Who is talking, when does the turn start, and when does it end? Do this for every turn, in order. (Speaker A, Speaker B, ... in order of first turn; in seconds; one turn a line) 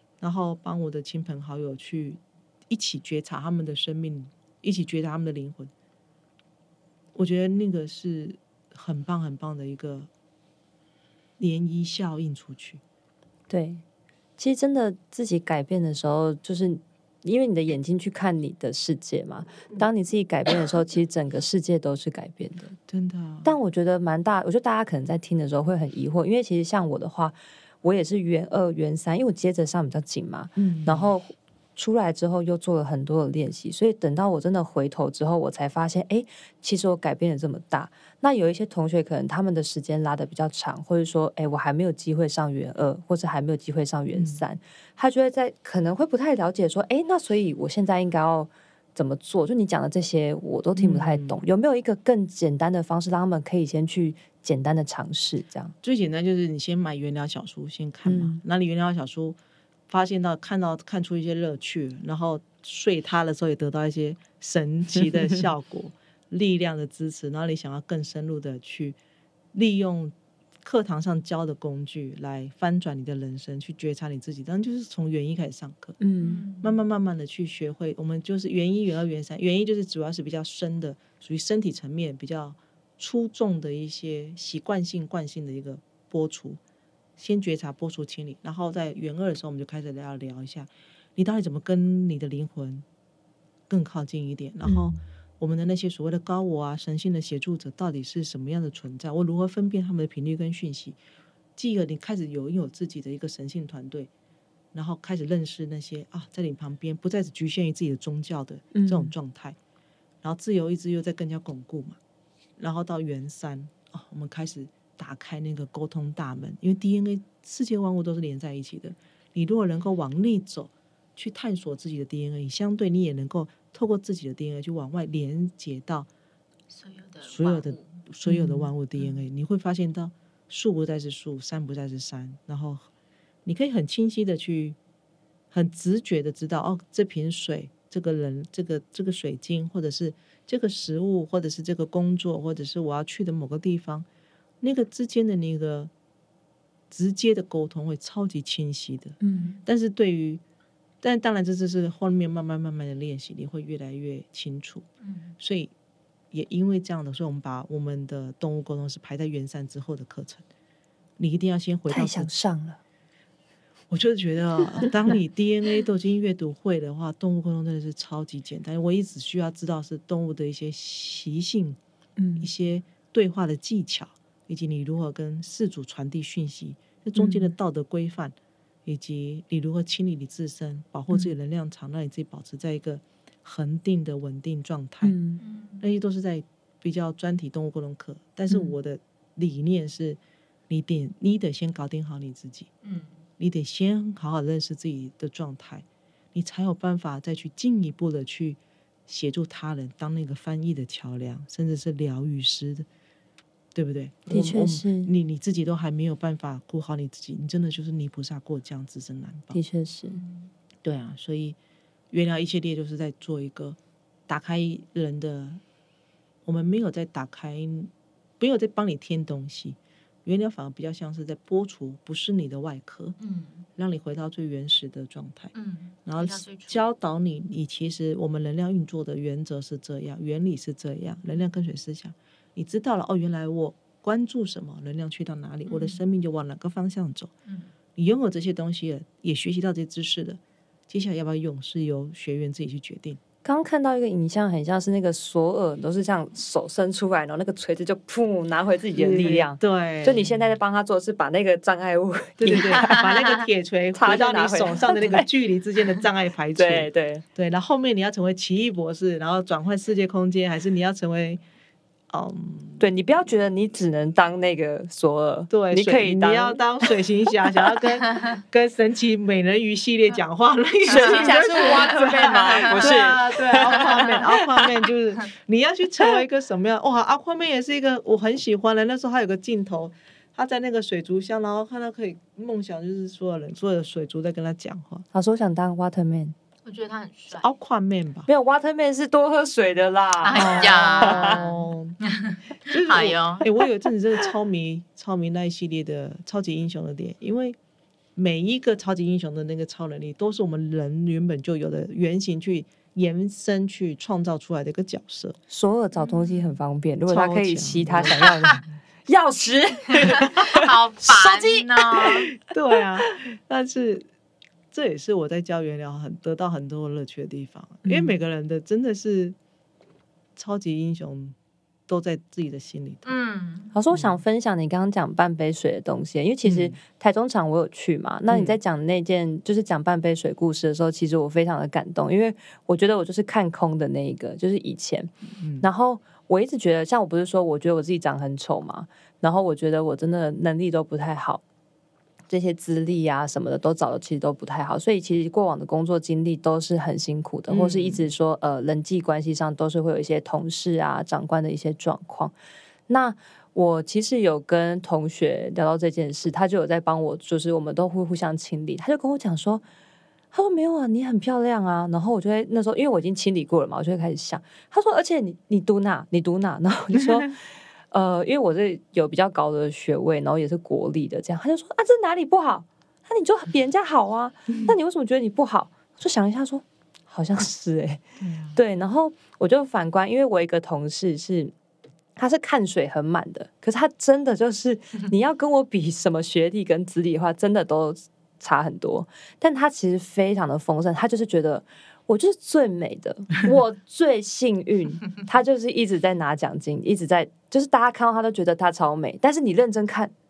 Speaker A: 0.2-5.7
Speaker A: 7.1-10.1
Speaker A: 11.4-12.8
Speaker B: 13.5-13.8
Speaker B: 14.4-22.8
Speaker A: 22.9-23.6
Speaker B: 23.4-55.7
Speaker A: 30.6-31.1
Speaker A: 44.1-44.4
Speaker A: 50.8-51.4
Speaker A: 55.8-59.4
Speaker B: 58.0-58.4
Speaker A: 59.9-69.0
Speaker A: 69.5-76.0
Speaker B: 76.0-76.4
Speaker C: 76.2-76.8
Speaker A: 76.6-86.6
Speaker A: 87.2-92.8
Speaker A: 93.7-101.0
Speaker B: 94.6-95.0
Speaker A: 101.5-104.1
Speaker A: 104.7-109.6
Speaker B: 108.7-109.1
Speaker A: 110.2-112.0
Speaker A: 112.6-126.1
Speaker C: 126.7-128.0
Speaker A: 127.2-132.9
Speaker B: 128.3-128.7
Speaker A: 133.4-134.8
Speaker A: 135.5-144.1
Speaker A: 144.6-145.9
Speaker A: 146.9-150.4
Speaker B: 149.2-149.6
Speaker A: 151.0-154.8
Speaker C: 155.0-155.3
Speaker A: 155.4-155.7
Speaker A: 156.3-160.4
Speaker A: 161.2-162.3
Speaker B: 161.9-162.8
Speaker A: 163.9-171.8
Speaker B: 172.2-172.5
Speaker A: 172.4-178.3
Speaker B: 177.2-177.5
Speaker A: 178.8-185.1
Speaker B: 185.0-185.4
Speaker C: 185.4-185.9
Speaker A: 185.8-192.7
Speaker C: 192.8-193.2
Speaker A: 193.4-202.8
Speaker A: 203.7-209.6
Speaker B: 204.3-205.1
Speaker B: 209.5-210.2
Speaker C: 210.1-210.5
Speaker A: 210.8-211.6
Speaker A: 212.1-215.6
Speaker A: 216.4-223.2
Speaker C: 223.2-223.7
Speaker A: 223.8-225.5
Speaker C: 225.5-226.8
Speaker A: 226.1-237.3
Speaker C: 235.7-236.0
Speaker C: 237.4-237.7
Speaker A: 237.9-243.2
Speaker B: 243.4-253.1
Speaker A: 248.9-250.5
Speaker A: 252.4-261.4
Speaker C: 252.8-253.4
Speaker B: 253.9-255.3
Speaker B: 256.5-257.2
Speaker A: 262.1-262.9
Speaker B: 262.8-267.4
Speaker A: 265.5-285.0
Speaker B: 270.9-274.4
Speaker C: 270.9-273.0
Speaker C: 273.7-274.2
Speaker B: 285.1-286.3
Speaker C: 286.6-287.5
Speaker A: 287.3-288.3
Speaker B: 288.3-291.4
Speaker C: 290.2-293.5
Speaker A: 290.3-292.0
Speaker A: 292.7-297.6
Speaker A: 298.1-305.4
Speaker B: 305.5-312.3
Speaker C: 305.9-306.6
Speaker A: 307.1-308.2
Speaker C: 308.1-308.6
Speaker C: 310.0-312.3
Speaker A: 312.0-314.1
Speaker A: 314.7-319.4
Speaker B: 317.8-318.1
Speaker A: 320.4-321.4
Speaker A: 321.9-323.1
Speaker C: 323.0-323.7
Speaker B: 323.7-341.4
Speaker A: 323.9-324.2
Speaker A: 326.4-326.8
Speaker A: 328.3-328.6
Speaker A: 335.3-335.7
Speaker B: 342.3-352.3
Speaker A: 347.5-348.1
Speaker B: 352.9-359.6
Speaker B: 360.3-367.4
Speaker B: 367.9-378.0
Speaker A: 378.2-378.6
Speaker B: 378.5-381.5
Speaker B: 382.2-400.1